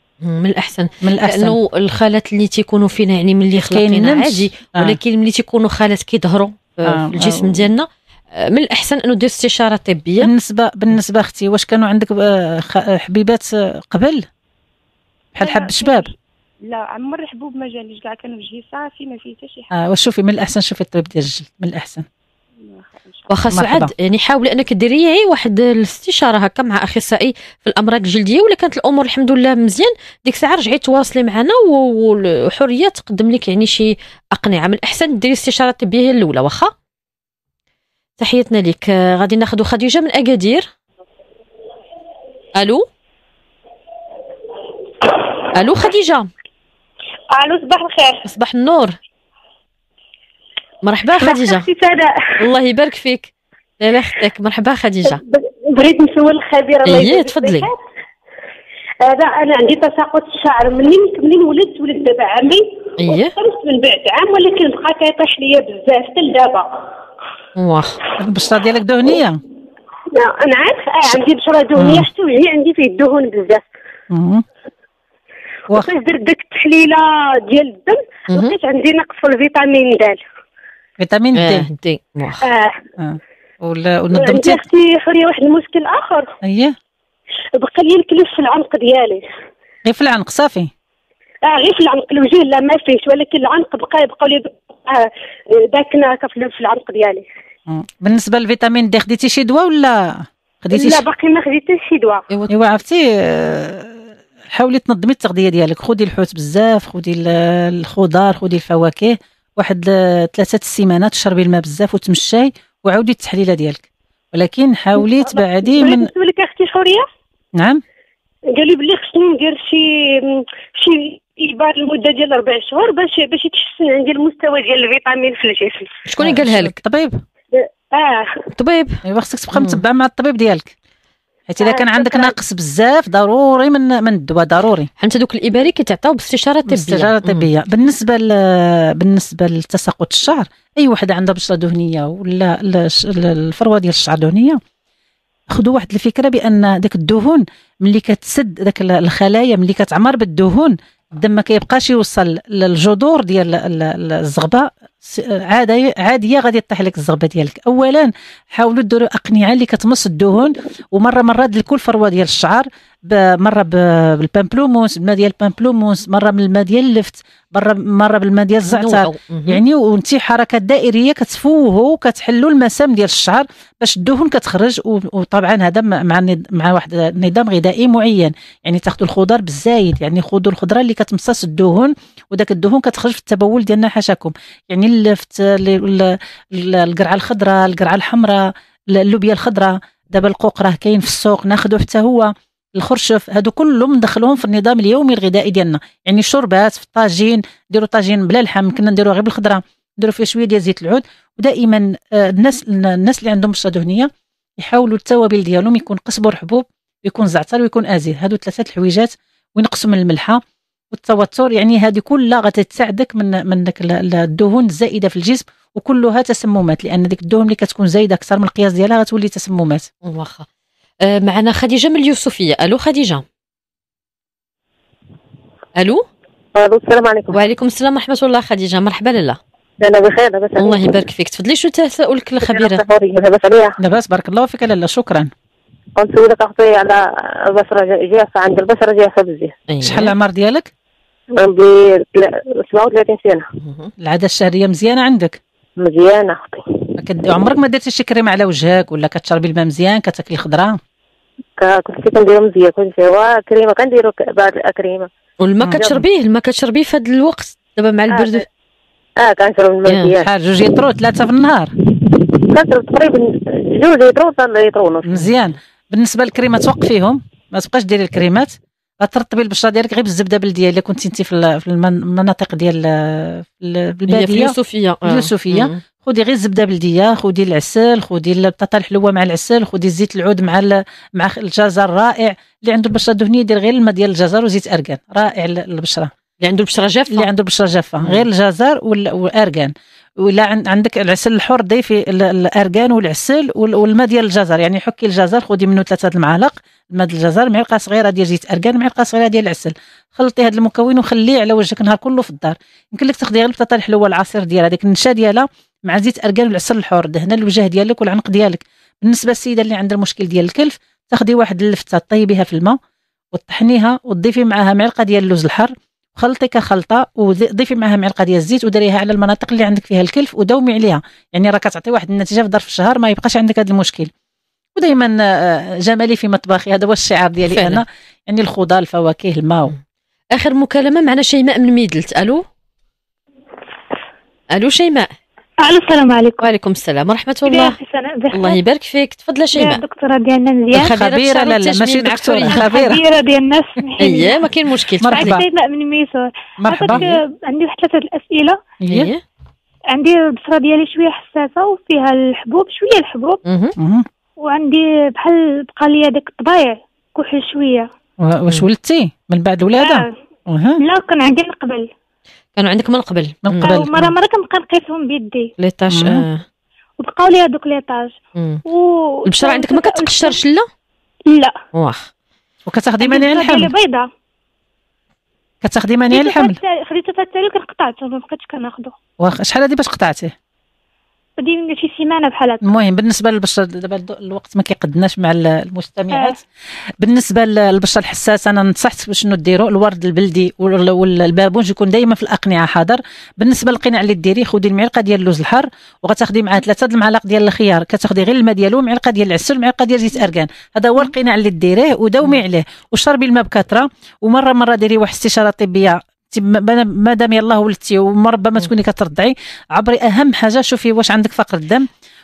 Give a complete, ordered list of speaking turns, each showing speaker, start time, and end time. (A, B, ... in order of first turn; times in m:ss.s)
0:00.2-0:10.3 A
0:01.0-0:01.6 B
0:03.6-0:05.0 B
0:06.9-0:07.6 B
0:10.2-0:14.3 B
0:15.4-0:16.1 B
0:15.4-0:16.1 C
0:16.7-0:19.7 C
0:19.7-0:22.1 B
0:22.7-0:23.3 C
0:23.3-0:36.7 A
0:23.5-0:23.9 B
0:38.2-0:40.7 A
0:42.6-0:42.9 A
0:45.5-0:46.3 A
0:47.3-0:48.2 D
0:48.2-0:49.0 A
0:50.8-0:51.7 A
0:51.2-0:52.4 D
0:52.4-0:55.2 A
0:55.0-0:57.8 D
0:56.9-0:57.7 A
0:59.0-1:06.7 D
1:03.0-1:03.4 A
1:07.6-1:08.0 A
1:08.2-1:09.4 B
1:10.1-1:13.6 D
1:11.8-1:12.1 B
1:14.1-1:14.4 B
1:15.7-1:20.2 D
1:18.3-1:18.6 A
1:21.0-1:21.7 B
1:21.3-1:22.4 A
1:22.4-1:22.8 D
1:23.0-1:24.6 B
1:24.1-1:26.3 D
1:26.4-1:26.8 B
1:27.6-1:29.2 D
1:29.9-1:30.7 B
1:31.4-1:37.2 D
1:37.7-1:41.0 B
1:40.7-1:42.2 D
1:42.5-1:44.0 B
1:44.5-1:56.1 B
1:55.0-1:57.0 D
1:57.6-1:57.8 B
1:58.5-2:05.9 D
2:06.1-2:06.8 A
2:06.2-2:07.2 B
2:07.6-2:08.4 D
2:08.5-2:09.0 A
2:09.0-2:10.7 B
2:09.5-2:09.8 A
2:11.5-2:14.9 B
2:11.6-2:12.4 D
2:15.0-2:17.5 A
2:16.7-2:24.6 B
2:25.5-3:30.4 B
2:48.6-2:49.6 A
3:30.9-3:39.9 B
3:40.0-3:40.5 A
3:41.0-3:43.2 A
3:45.8-3:46.1 A
3:46.5-3:47.4 E
3:47.3-3:49.4 A
3:49.8-3:51.0 E
3:50.6-3:52.8 A
3:52.4-3:53.8 E
3:53.8-3:55.3 B
3:56.0-3:59.6 E
3:59.7-4:00.2 A
3:59.8-4:00.7 B
4:01.4-4:03.4 E
4:03.6-4:03.9 A
4:04.0-4:05.4 B
4:05.8-4:06.9 E
4:07.0-4:10.8 B
4:11.6-4:15.1 E
4:15.4-4:18.4 A
4:15.6-4:16.0 B
4:18.1-4:18.4 E
4:19.2-4:20.7 E
4:19.9-4:20.1 A
4:20.2-4:21.7 B
4:22.0-4:25.2 E
4:25.1-4:34.5 B
4:25.1-4:25.5 A
4:34.1-4:35.8 A
4:35.0-4:46.1 B
4:46.4-4:47.3 A
4:47.1-5:12.8 B
4:48.0-4:48.3 A
5:13.3-5:24.1 B
5:24.8-5:29.7 B
5:27.5-5:27.8 A
5:30.4-5:32.5 A
5:34.5-5:35.1 A
5:35.6-5:36.4 F
5:36.4-5:37.8 A
5:37.5-5:38.6 F
5:38.3-5:39.8 A
5:39.5-5:40.9 F
5:40.8-5:43.0 B
5:40.8-5:42.9 A
5:42.4-5:44.5 F
5:44.0-5:45.4 A
5:45.0-5:45.4 B
5:45.1-5:48.6 F
5:46.6-5:47.1 B
5:48.8-5:49.1 B
5:48.9-5:49.2 A
5:49.9-5:53.4 F
5:53.5-5:53.7 A
5:53.8-5:54.1 B
5:54.4-5:57.9 F
5:58.2-6:00.8 B
5:59.8-6:00.1 F
6:00.8-6:01.9 F
6:02.6-6:03.9 A
6:03.4-6:04.1 B
6:03.6-6:05.5 F
6:05.6-6:06.4 A
6:05.9-6:06.2 B
6:07.0-6:08.1 F
6:08.4-6:08.6 A
6:08.7-6:10.4 F
6:09.3-6:10.7 A
6:11.3-6:11.6 F
6:11.7-6:12.1 A
6:12.7-6:13.7 B
6:13.0-6:14.1 F
6:15.6-6:16.6 B
6:16.1-6:19.0 F
6:19.2-6:20.3 B
6:21.4-6:22.6 F
6:22.6-6:26.4 B
6:26.1-6:26.4 F
6:27.0-6:51.9 B